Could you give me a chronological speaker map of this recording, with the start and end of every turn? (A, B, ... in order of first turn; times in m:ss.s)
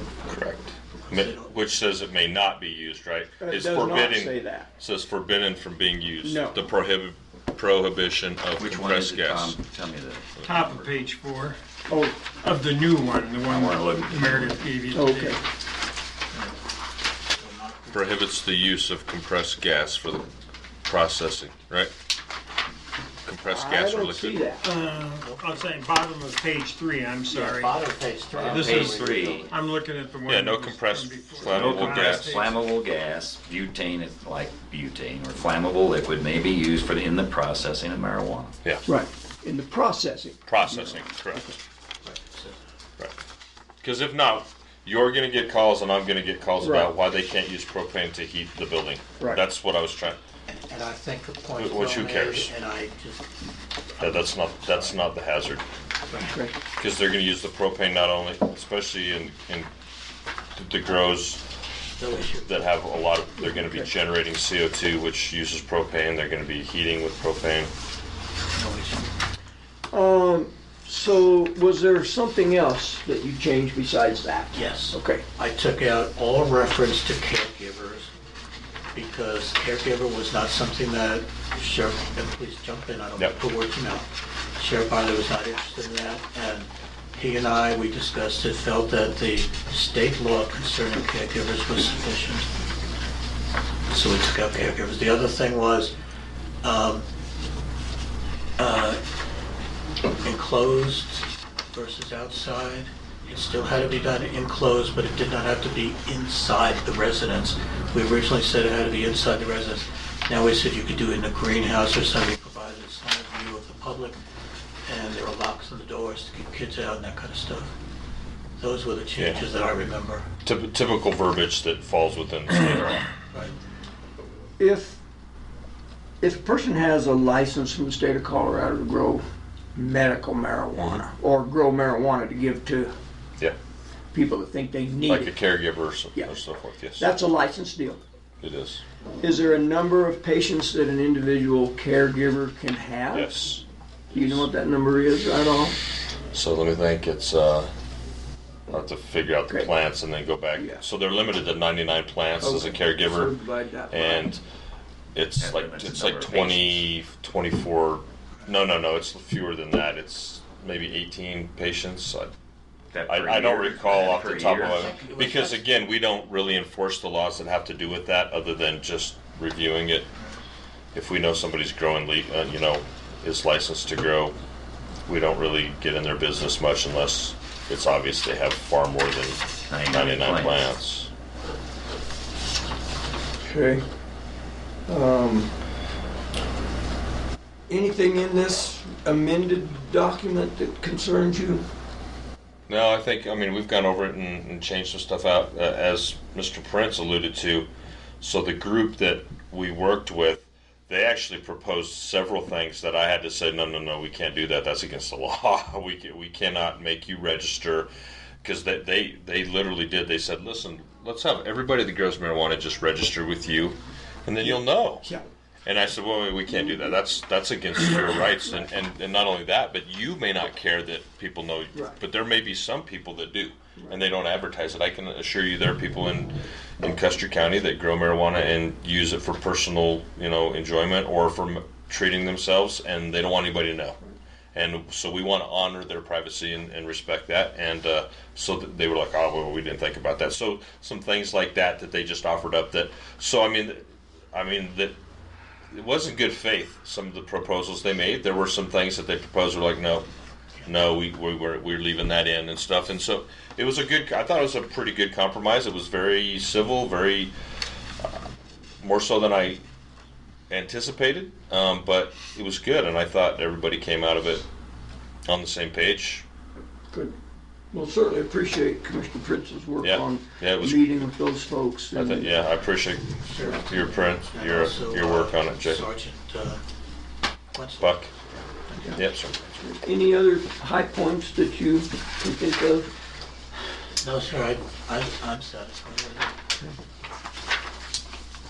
0:00.3-0:09.6 A
0:01.1-0:01.5 B
0:03.4-0:04.7 C
0:06.2-0:06.6 C
0:08.6-0:10.8 D
0:10.4-0:11.6 E
0:11.9-0:12.2 C
0:12.4-0:15.4 E
0:13.5-0:14.6 D
0:14.9-0:15.4 C
0:16.3-0:16.6 B
0:17.3-0:18.2 B
0:17.9-0:20.3 A
0:20.9-0:21.9 A
0:23.3-0:24.4 A
0:23.5-0:24.7 C
0:24.6-0:27.8 E
0:25.2-0:25.7 B
0:27.3-0:29.5 B
0:28.3-0:29.5 D
0:28.4-0:32.6 E
0:30.3-0:32.3 A
0:31.5-0:38.6 D
0:38.9-0:41.6 C
0:40.5-0:41.5 A
0:42.0-0:42.6 B
0:43.8-0:50.2 A
0:46.6-0:46.9 C
0:50.5-0:53.3 B
0:51.6-0:52.5 A
0:54.0-0:55.0 B
0:54.0-0:55.6 A
0:56.1-0:56.4 B
0:56.3-0:56.6 C
0:56.8-0:59.7 A
1:00.6-1:01.4 A
1:02.0-1:02.5 B
1:02.4-1:07.7 A
1:03.5-1:03.9 C
1:08.5-1:09.1 B
1:09.9-1:15.2 C
1:14.5-1:18.1 B
1:18.9-1:32.5 B
1:33.9-1:35.9 B
1:36.6-1:37.1 B
1:38.6-1:39.0 B
1:40.2-1:54.2 B
1:54.8-1:57.7 B
1:58.6-2:00.3 B
1:59.2-1:59.4 A
2:00.4-2:03.1 A
2:04.6-2:05.0 C
2:06.2-2:09.2 C
2:09.8-2:12.9 C
2:10.8-2:11.0 A
2:14.1-2:15.3 C
2:15.1-2:17.1 A
2:17.0-2:18.0 C
2:18.4-2:18.8 A
2:19.2-2:23.3 C
2:23.1-2:23.6 A
2:24.1-2:25.8 C
2:26.3-2:27.7 A
2:28.7-2:33.3 A
2:30.6-2:30.8 C
2:32.4-2:34.3 C
2:33.9-2:34.4 A
2:35.2-2:42.3 A
2:35.4-2:36.9 D
2:42.9-2:45.2 D
2:43.1-2:50.1 A
2:45.0-2:45.5 B
2:50.9-2:54.4 A
2:55.1-3:01.1 A
2:59.7-3:00.7 D
3:03.4-3:03.8 C
3:04.9-3:05.6 C
3:07.7-3:11.6 C
3:12.7-3:17.7 A
3:18.2-3:27.9 A
3:28.4-3:35.1 A
3:34.4-3:35.2 C
3:35.6-3:54.0 A
3:54.5-4:05.0 A
4:05.7-4:10.1 A
4:10.6-4:17.3 A
4:18.8-4:19.6 A
4:20.5-4:24.4 A
4:25.3-4:26.2 A
4:27.7-4:32.3 C
4:29.8-4:31.1 A
4:31.9-4:35.8 A
4:33.2-4:36.6 B
4:37.5-4:38.0 B
4:37.8-4:38.1 A
4:38.6-4:39.0 B
4:38.9-4:39.4 A
4:39.6-4:42.9 C
4:44.0-4:46.4 B